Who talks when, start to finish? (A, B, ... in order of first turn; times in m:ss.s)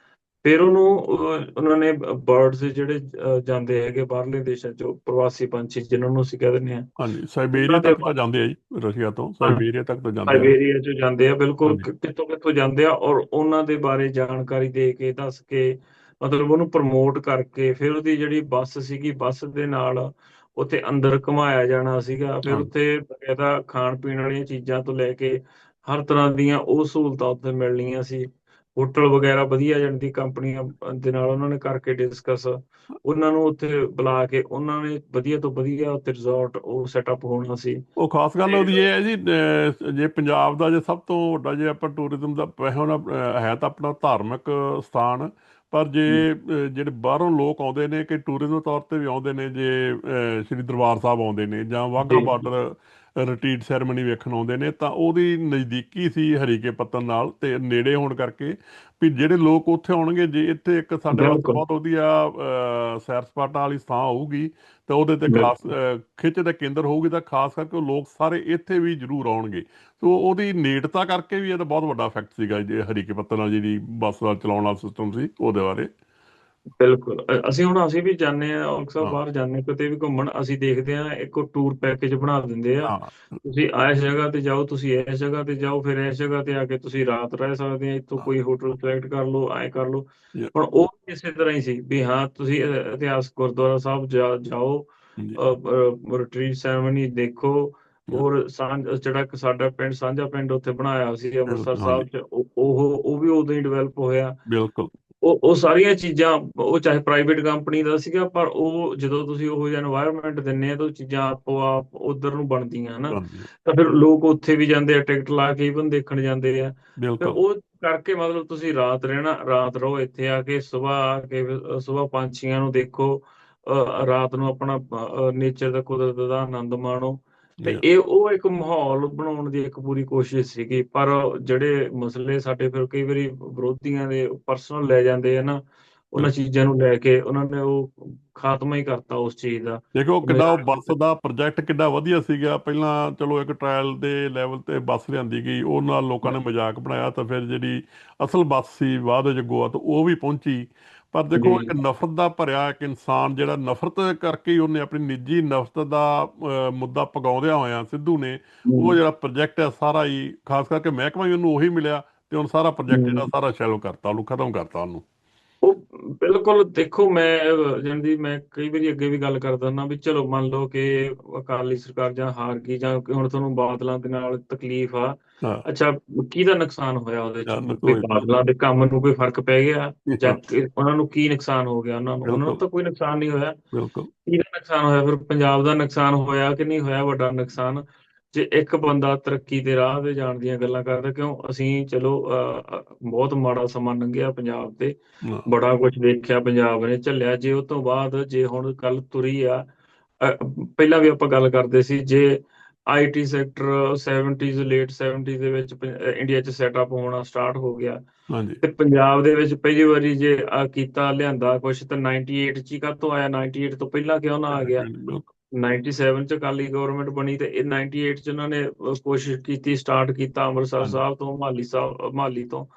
0:00.4-0:06.9 A
0:07.0-0:10.5 B
0:07.5-0:08.1 A
0:10.3-0:37.8 A
0:38.0-1:15.9 B
0:38.4-0:38.8 A
0:52.0-0:52.3 A
1:01.1-1:01.6 A
1:16.8-1:44.4 A
1:22.8-1:23.4 B
1:41.5-1:42.1 B
1:44.5-1:44.9 B
1:45.2-2:15.6 A
1:53.1-1:53.5 B
1:57.0-1:57.4 B
2:16.1-2:20.9 A
2:19.9-2:45.0 B
2:31.4-2:31.7 A
2:38.6-2:39.0 A
2:42.9-2:43.3 A
2:45.6-3:03.6 A
2:57.5-2:58.4 B
3:00.1-3:00.4 B
3:02.2-3:02.6 B
3:03.7-3:04.1 B
3:04.2-3:14.9 A
3:15.4-3:19.6 A
3:20.2-3:22.3 A
3:22.9-3:28.0 A
3:28.3-3:28.6 B
3:28.6-3:34.8 A
3:34.5-3:35.2 B
3:35.6-3:42.7 A